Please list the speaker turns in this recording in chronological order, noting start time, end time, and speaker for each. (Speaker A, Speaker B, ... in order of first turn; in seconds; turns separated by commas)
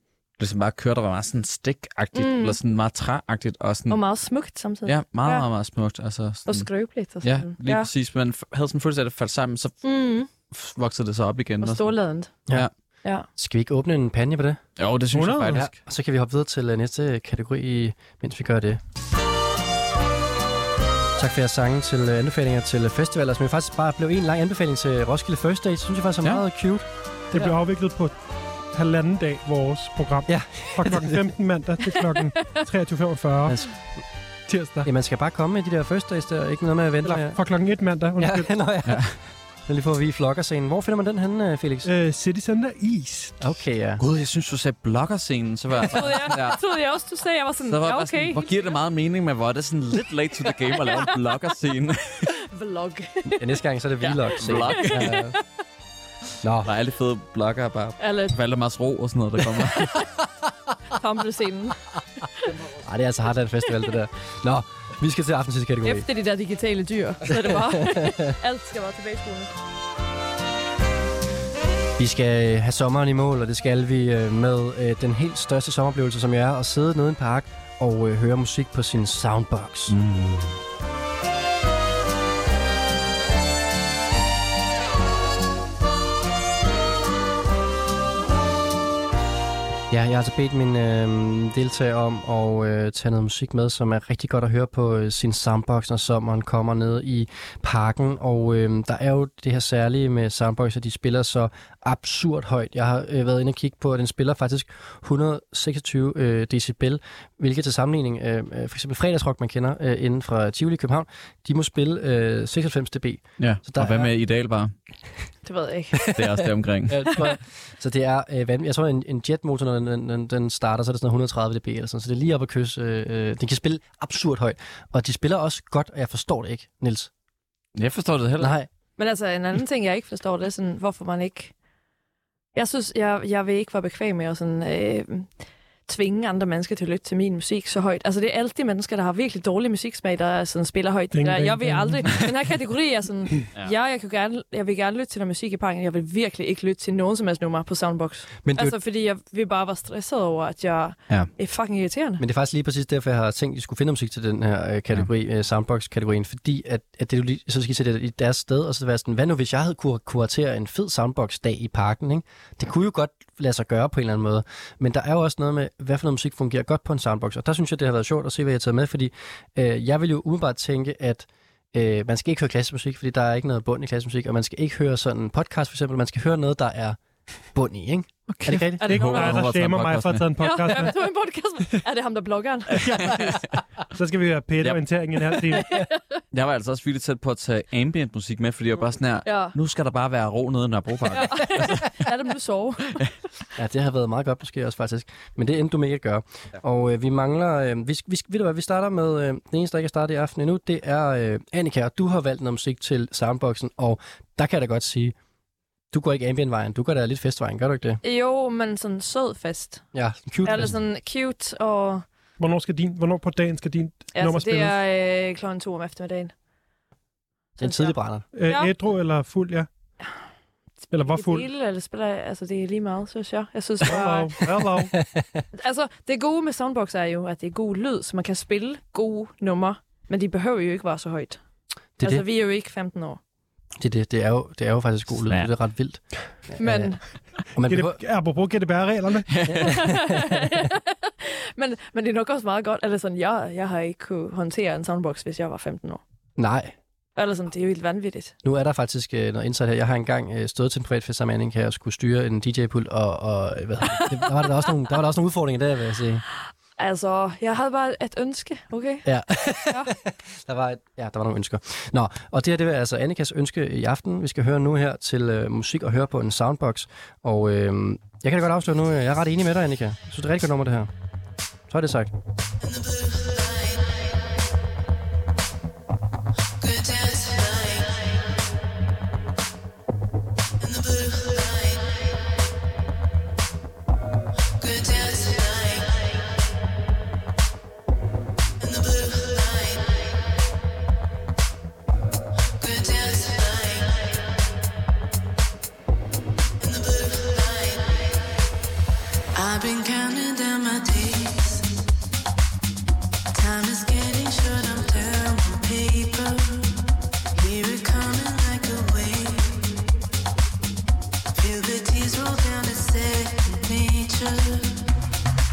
Speaker A: 0.4-4.0, Speaker B: 2.1-2.6, Speaker B: 3.9-5.5, Speaker A: 4.8-9.8, Speaker B: 6.5-7.9, Speaker B: 9.8-10.3, Speaker A: 10.5-11.9, Speaker B: 11.6-12.3, Speaker C: 13.3-14.6, Speaker A: 14.8-15.7, Speaker D: 15.1-15.6, Speaker C: 15.5-18.8, Speaker C: 21.2-26.9, Speaker D: 27.3-28.2, Speaker D: 28.7-33.6, Speaker C: 30.3-31.3, Speaker C: 33.4-33.8, Speaker D: 34.5-34.9, Speaker C: 34.8-37.4, Speaker D: 37.0-38.5, Speaker C: 38.2-41.9, Speaker A: 38.8-39.1, Speaker D: 41.8-43.4, Speaker C: 43.4-44.0, Speaker A: 44.0-46.6, Speaker B: 45.9-48.5, Speaker A: 47.7-52.3, Speaker B: 52.5-53.5, Speaker C: 53.3-55.4, Speaker A: 54.0-55.3, Speaker B: 54.6-55.4, Speaker C: 56.4-56.7, Speaker A: 56.6-60.0, Speaker B: 58.0-58.3, Speaker B: 60.9-61.8, Speaker C: 62.8-66.0, Speaker B: 65.8-69.5, Speaker C: 67.3-68.3, Speaker C: 72.0-80.0, Speaker A: 79.9-80.6, Speaker C: 89.9-114.1, Speaker A: 113.4-114.7, Speaker B: 115.4-116.1, Speaker A: 116.1-117.2, Speaker C: 116.9-127.1, Speaker A: 127.8-128.5, Speaker C: 128.4-128.7, Speaker B: 129.0-131.5, Speaker B: 132.5-135.3, Speaker B: 135.9-152.2, Speaker D: 141.1-142.3, Speaker C: 148.4-148.8, Speaker C: 152.2-177.0, Speaker C: 177.5-178.9, Speaker A: 178.3-180.3, Speaker B: 178.8-179.5, Speaker D: 178.8-180.9, Speaker B: 180.4-183.0, Speaker D: 182.8-183.4, Speaker A: 183.0-183.4, Speaker D: 183.9-185.8, Speaker A: 186.3-191.9, Speaker B: 189.2-189.5, Speaker B: 191.1-193.0, Speaker C: 193.6-205.1, Speaker C: 205.9-208.0, Speaker B: 208.0-209.8, Speaker C: 209.9-210.8, Speaker B: 210.4-212.0, Speaker D: 212.4-214.7, Speaker B: 214.1-216.3, Speaker B: 217.6-218.7, Speaker C: 217.6-218.3, Speaker D: 218.3-219.7, Speaker D: 220.9-221.5, Speaker B: 221.1-224.4, Speaker D: 223.8-224.9, Speaker C: 224.7-225.4, Speaker B: 225.5-231.4, Speaker C: 232.0-232.2, Speaker B: 232.0-233.2, Speaker C: 233.8-237.0, Speaker A: 235.2-235.5, Speaker B: 236.6-237.0, Speaker C: 237.5-238.0, Speaker D: 237.6-239.3, Speaker A: 239.3-239.7, Speaker C: 239.5-240.3, Speaker B: 239.6-246.0, Speaker C: 246.4-246.7, Speaker B: 247.2-248.3, Speaker C: 248.4-256.2, Speaker B: 256.8-259.9, Speaker C: 259.0-270.9, Speaker C: 271.7-272.1, Speaker E: 272.6-274.1, Speaker E: 276.6-278.2, Speaker E: 280.6-282.1, Speaker E: 284.6-286.2, Speaker E: 288.6-290.2, Speaker E: 292.6-294.2, Speaker E: 296.6-298.2, Speaker E: 299.4-301.7, Speaker E: 303.3-306.8, Speaker E: 307.3-309.8, Speaker E: 311.4-314.7